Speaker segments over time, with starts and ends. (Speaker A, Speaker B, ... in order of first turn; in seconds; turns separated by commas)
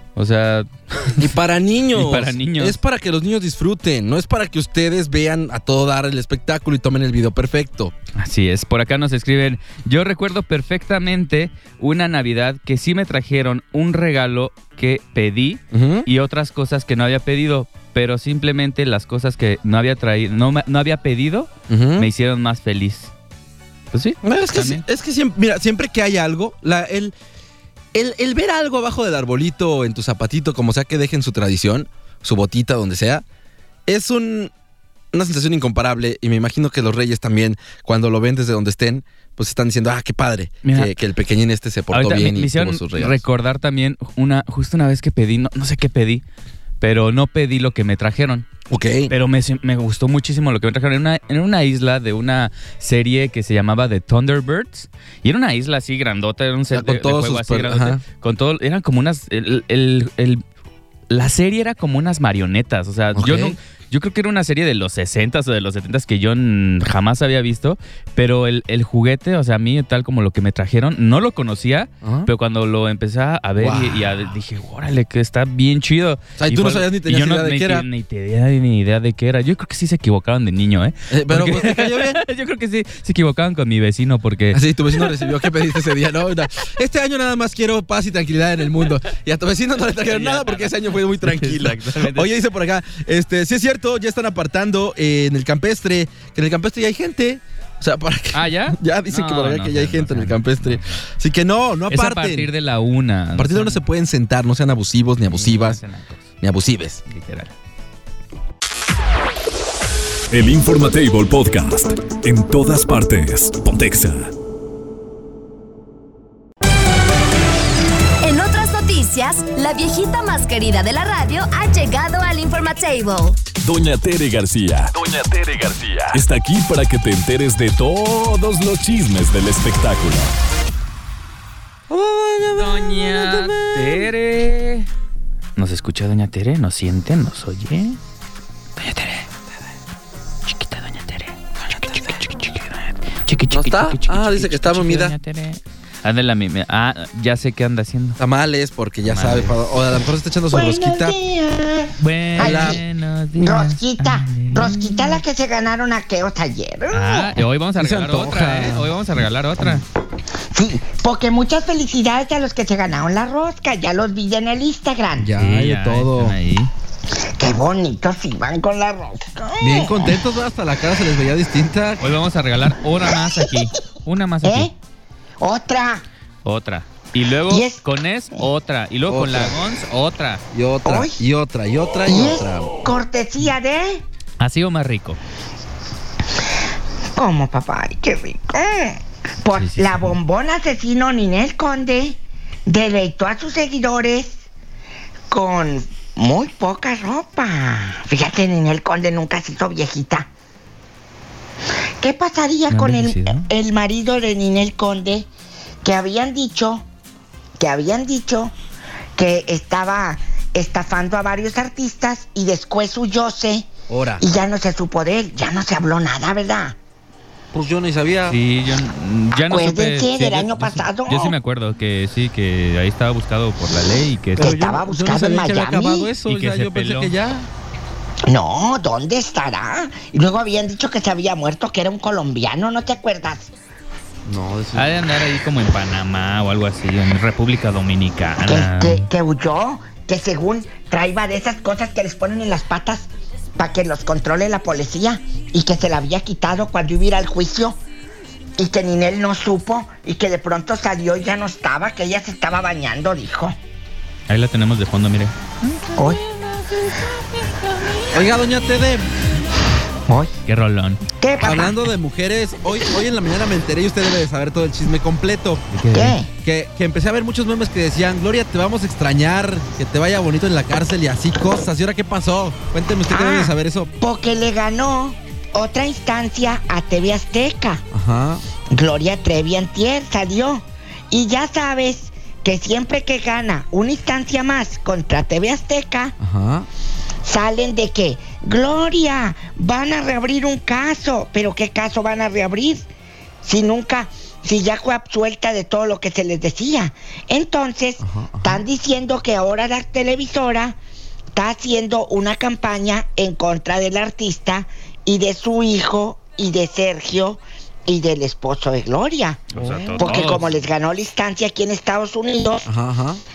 Speaker A: 0.2-1.3, Speaker B: 1.2-7.9, Speaker A: 1.9-2.8, Speaker A: 8.2-23.1, Speaker B: 15.7-16.1, Speaker B: 21.7-22.1, Speaker A: 23.9-24.8, Speaker B: 24.2-27.1, Speaker B: 27.9-33.2, Speaker B: 33.9-34.5, Speaker B: 35.1-43.2, Speaker A: 40.6-40.9, Speaker A: 41.9-46.2, Speaker A: 46.8-48.5, Speaker B: 48.7-49.1, Speaker A: 49.1-60.4, Speaker B: 56.7-58.0, Speaker A: 61.1-85.5, Speaker B: 63.1-63.6, Speaker B: 72.0-72.3, Speaker B: 73.6-74.1, Speaker B: 76.4-77.9, Speaker B: 81.1-82.2, Speaker B: 84.5-102.5, Speaker A: 90.0-92.3, Speaker A: 98.3-101.0, Speaker A: 101.9-103.8, Speaker B: 103.3-105.8, Speaker A: 105.2-106.3, Speaker B: 106.4-107.0, Speaker A: 107.1-107.5, Speaker C: 110.3-114.3, Speaker D: 118.2-123.4, Speaker C: 123.6-130.3, Speaker B: 131.9-134.1, Speaker A: 132.5-134.9, Speaker A: 135.6-138.0, Speaker A: 138.8-139.3, Speaker A: 140.5-148.2, Speaker B: 143.5-145.2, Speaker B: 148.2-151.2, Speaker A: 149.0-149.7, Speaker E: 150.5-152.8, Speaker A: 152.0-155.2, Speaker B: 152.4-152.8, Speaker E: 153.4-157.4, Speaker A: 156.9-159.8, Speaker B: 157.8-158.9, Speaker E: 160.5-165.3, Speaker B: 165.2-166.4, Speaker A: 165.4-166.7, Speaker E: 167.4-170.2, Speaker B: 169.6-172.1, Speaker A: 172.0-174.7, Speaker E: 174.4-174.7, Speaker E: 175.4-176.0, Speaker A: 176.4-180.4, Speaker E: 177.5-177.8, Speaker B: 179.1-179.6, Speaker B: 180.5-182.9, Speaker E: 180.8-181.2, Speaker E: 182.1-184.0, Speaker A: 184.4-185.2, Speaker E: 187.2-194.4, Speaker A: 189.5-190.2, Speaker E: 195.3-200.3, Speaker E: 202.0-205.3, Speaker A: 202.7-203.5, Speaker E: 205.8-206.8, Speaker E: 207.6-208.5, Speaker E: 209.2-213.7, Speaker B: 213.9-214.2, Speaker E: 214.2-216.8, Speaker B: 217.5-218.4, Speaker A: 218.3-224.6, Speaker E: 219.4-221.3, Speaker B: 224.4-227.5, Speaker E: 224.4-226.1, Speaker A: 226.3-227.1, Speaker E: 228.3-233.5, Speaker B: 234.3-234.9, Speaker A: 234.8-239.1, Speaker E: 238.4-247.8, Speaker E: 248.6-253.6, Speaker A: 254.3-255.4, Speaker E: 256.0-256.2, Speaker B: 258.1-259.1, Speaker E: 260.1-260.3, Speaker A: 260.4-261.0, Speaker E: 261.2-261.8, Speaker B: 261.4-265.7, Speaker A: 265.7-266.2, Speaker E: 265.9-266.3, Speaker B: 266.4-273.9, Speaker E: 273.1-277.8, Speaker B: 277.9-278.4, Speaker E: 278.7-286.1, Speaker B: 286.2-286.7, Speaker E: 287.2-292.9, Speaker E: 293.4-300.8, Speaker B: 298.0-298.6, Speaker E: 301.4-312.7, Speaker A: 309.5-310.4, Speaker B: 309.6-310.5, Speaker B: 312.7-313.2